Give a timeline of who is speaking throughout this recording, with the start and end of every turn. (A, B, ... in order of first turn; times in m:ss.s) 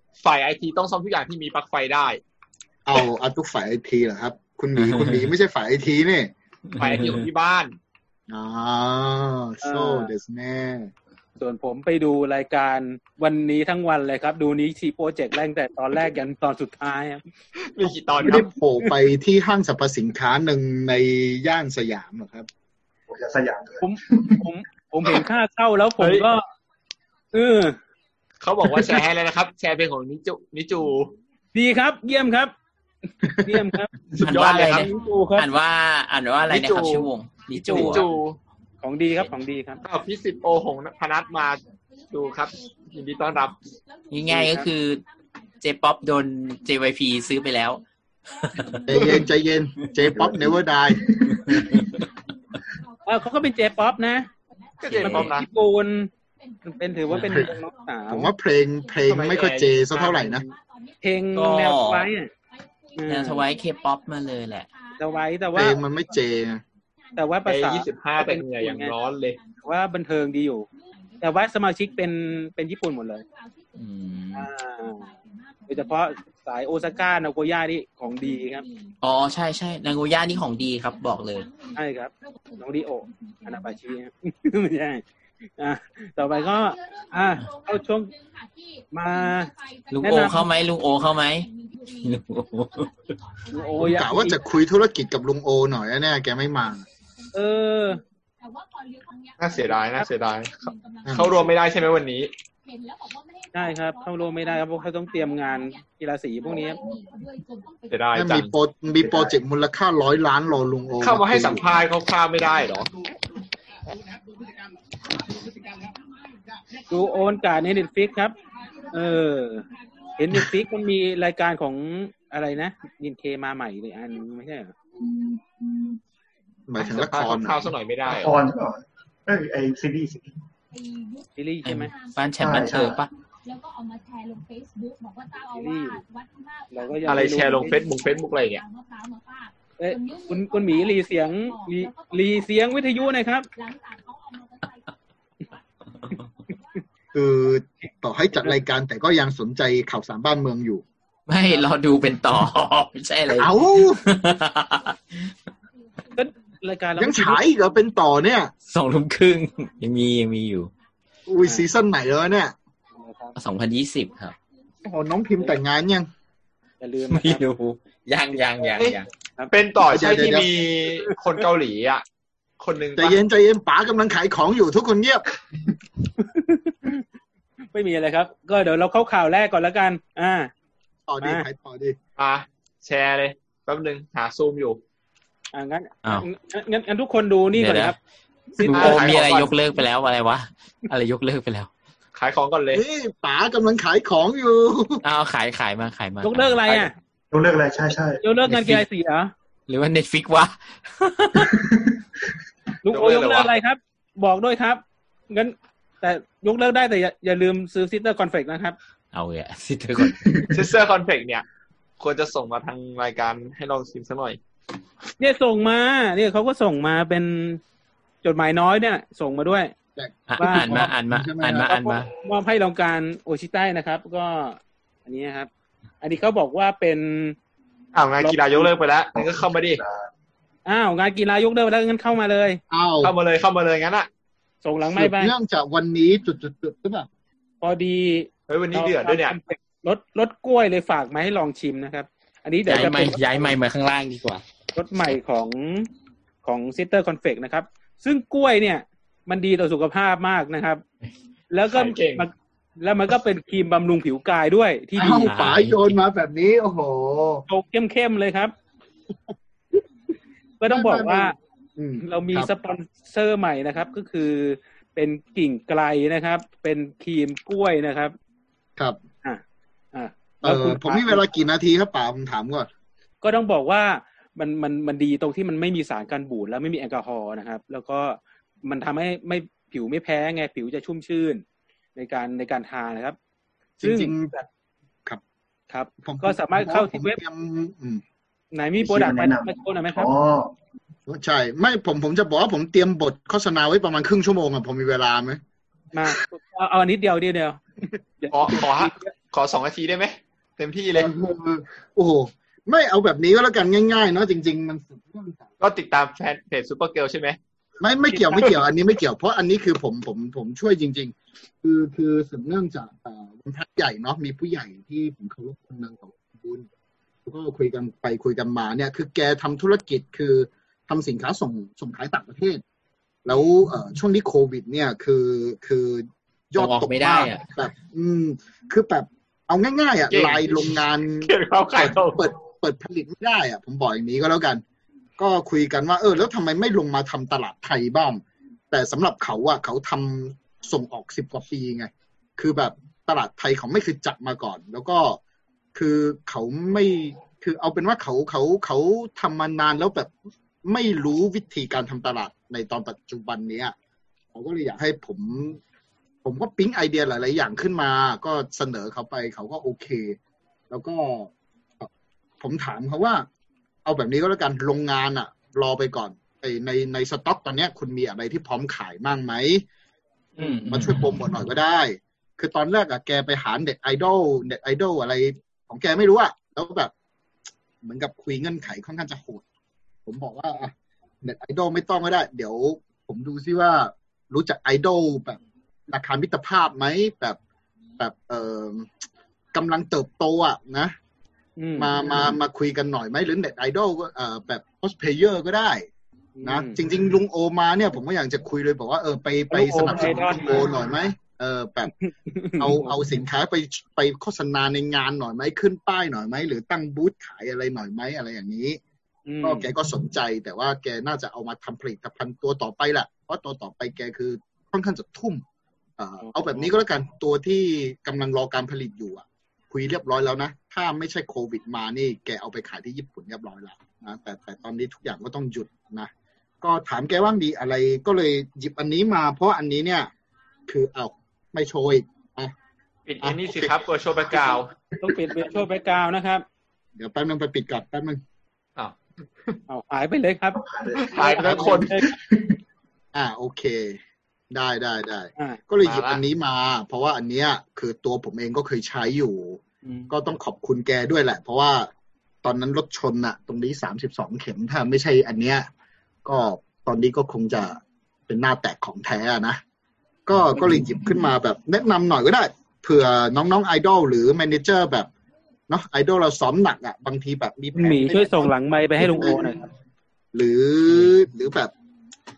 0:00.2-0:02.2 A
0:02.9-0:06.3 B
0:04.8-0:05.3 C
0:06.7-0:07.3 C
0:06.8-0:07.8 A
0:08.3-0:10.9 B
0:09.6-0:10.1 D
0:11.4-0:17.2 D
0:17.6-0:18.5 A
0:18.2-0:22.5 B
0:23.1-0:24.4 E
0:23.8-0:26.4 D
0:26.0-0:26.3 A
0:27.3-0:27.8 D
0:28.4-0:31.1 A
0:31.5-0:32.5 D
0:33.2-0:33.7 B
0:33.4-0:35.5 D
0:34.2-0:34.9 A
0:34.2-0:38.1 C
0:36.5-0:37.1 A
0:37.5-0:38.0 D
0:37.7-0:38.4 A
0:38.8-0:39.8 D
0:39.8-0:43.6 A
0:44.1-0:45.0 C
0:44.3-0:44.7 D
0:45.6-0:47.8 C
0:48.4-0:49.0 C
0:48.9-0:51.2 B
0:50.1-0:51.9 E
0:51.4-0:52.0 C
0:53.1-0:54.3 D
0:54.8-0:55.5 A
0:54.8-0:55.4 C
0:55.0-0:56.1 D
0:56.7-0:58.3 D
0:57.1-0:57.6 C
0:57.2-0:57.5 B
0:58.1-1:00.5 B
0:59.1-1:00.5 A
1:01.0-1:02.3 D
1:01.3-1:02.1 C
1:03.0-1:03.5 D
1:03.1-1:04.7 C
1:05.0-1:05.8 D
1:05.5-1:06.6 B
1:07.2-1:08.9 D
1:07.5-1:09.4 A
1:09.6-1:10.7 D
1:11.2-1:13.2 D
1:13.8-1:14.5 C
1:14.3-1:15.1 D
1:15.7-1:18.6 D
1:19.0-1:21.5 C
1:21.8-1:25.0 D
1:25.6-1:28.1 D
1:28.9-1:30.5 D
1:29.9-1:33.1 C
1:33.5-1:34.4 D
1:33.8-1:36.9 B
1:37.3-1:38.0 D
1:39.4-1:42.3 A
1:41.1-1:41.5 B
1:43.5-1:46.8 D
1:47.9-1:48.5 A
1:48.1-1:51.6 B
1:51.0-1:52.9 A
1:56.9-1:58.4 D
1:58.9-1:59.7 D
2:00.2-2:04.7 D
2:06.7-2:07.7 B
2:06.8-2:08.4 A
2:08.1-2:10.3 E
2:11.4-2:11.9 D
2:11.6-2:13.1 C
2:12.4-2:13.0 E
2:15.5-2:16.0 D
2:16.7-2:17.8 D
2:17.1-2:18.6 A
2:19.8-2:23.5 D
2:27.1-2:30.8 B
2:31.3-2:35.3 C
2:33.3-2:34.0 B
2:36.2-2:37.4 D
2:37.0-2:38.5 B
2:38.7-2:40.7 C
2:41.3-2:42.6 B
2:43.0-2:43.4 D
2:43.4-2:44.4 C
2:44.8-2:46.1 B
2:46.8-2:47.4 D
2:47.1-2:49.1 C
2:49.5-2:52.0 A
2:49.9-2:50.5 B
2:52.6-2:53.2 A
2:53.0-2:55.2 B
2:56.2-2:57.0 D
2:57.7-3:00.5 D
3:01.1-3:02.0 B
3:02.2-3:04.8 A
3:05.5-3:08.0 D
3:07.5-3:08.0 C
3:08.6-3:09.3 D
3:08.6-3:11.7 C
3:08.6-3:09.6 A
3:12.2-3:12.8 A
3:12.7-3:15.0 B
3:15.0-3:16.9 C
3:16.2-3:16.9 D
3:17.3-3:18.2 E
3:18.2-3:19.3 D
3:18.5-3:18.8 C
3:19.7-3:21.5 C
3:21.5-3:21.9 E
3:22.8-3:28.8 D
3:22.9-3:23.5 A
3:29.1-3:30.5 C
3:30.5-3:31.4 A
3:32.0-3:34.4 A
3:35.2-3:37.6 D
3:38.2-3:39.7 D
3:40.0-3:41.7 B
3:40.3-3:42.1 C
3:40.4-3:40.9 D
3:41.7-3:45.5 D
3:46.0-3:47.4 D
3:47.9-3:49.8 A
3:48.2-3:48.7 D
3:49.2-3:50.1 E
3:50.7-3:52.6 D
3:52.7-3:53.1 B
3:53.0-3:54.1 A
3:54.6-3:55.3 D
3:54.9-3:57.1 B
3:57.6-4:03.6 D
3:58.5-3:59.4 A
4:02.7-4:04.4 C
4:04.8-4:05.9 D
4:06.4-4:10.8 D
4:11.5-4:15.4 D
4:11.7-4:12.3 A
4:15.0-4:17.4 B
4:15.2-4:15.9 C
4:17.5-4:18.5 D
4:20.6-4:21.4 D
4:20.7-4:22.5 B
4:22.0-4:28.2 D
4:29.9-4:31.3 D
4:30.4-4:32.7 B
4:33.2-4:41.4 D
4:42.0-4:43.2 D
4:43.8-4:44.4 B
4:43.8-4:44.4 D
4:45.7-4:47.2 D
4:46.0-4:48.0 B
4:48.5-4:50.1 D
4:48.8-4:50.5 E
4:51.1-4:55.4 B
4:55.9-4:59.1 D
4:58.3-5:01.1 A
5:01.0-5:05.5 B
5:05.6-5:07.4 A
5:07.8-5:16.7 B
5:08.1-5:08.5 D
5:17.2-5:22.6 B
5:23.2-5:34.6 B
5:26.6-5:27.5 C
5:30.1-5:32.2 A
5:35.2-5:45.2 B
5:45.8-5:50.1 B
5:50.6-5:53.8 B
5:54.3-5:55.6 B
5:56.2-6:00.2 B
6:00.7-6:03.3 B
6:03.8-6:09.6 B
6:10.4-6:11.1 C
6:10.7-6:16.9 B
6:17.8-6:19.4 B
6:20.1-6:20.7 B
6:21.2-6:27.4 B
6:28.0-6:28.9 B
6:29.5-6:31.0 B
6:31.6-6:32.0 D
6:31.8-6:35.9 B
6:36.4-6:36.8 D
6:36.4-6:41.9 B
6:39.5-6:40.7 D
6:42.0-6:43.0 D
6:42.6-6:48.8 B
6:49.3-6:49.7 D
6:49.4-6:55.4 B
6:56.0-7:06.1 B
6:56.2-6:56.7 D
7:06.6-7:10.1 B
7:10.7-7:12.5 B
7:13.1-7:14.7 A
7:13.2-7:14.6 B
7:15.0-7:16.4 D
7:17.0-7:18.2 B
7:18.8-7:19.6 A
7:19.7-7:20.6 D
7:20.6-7:22.6 E
7:21.0-7:22.0 A
7:21.2-7:22.2 D
7:23.1-7:24.0 B
7:24.5-7:31.9 B
7:25.8-7:26.2 A
7:29.8-7:30.1 D
7:32.4-7:35.7 B
7:36.2-7:39.6 B
7:40.3-7:45.1 B
7:45.7-7:49.6 B
7:47.8-7:49.7 D
7:50.3-7:51.7 B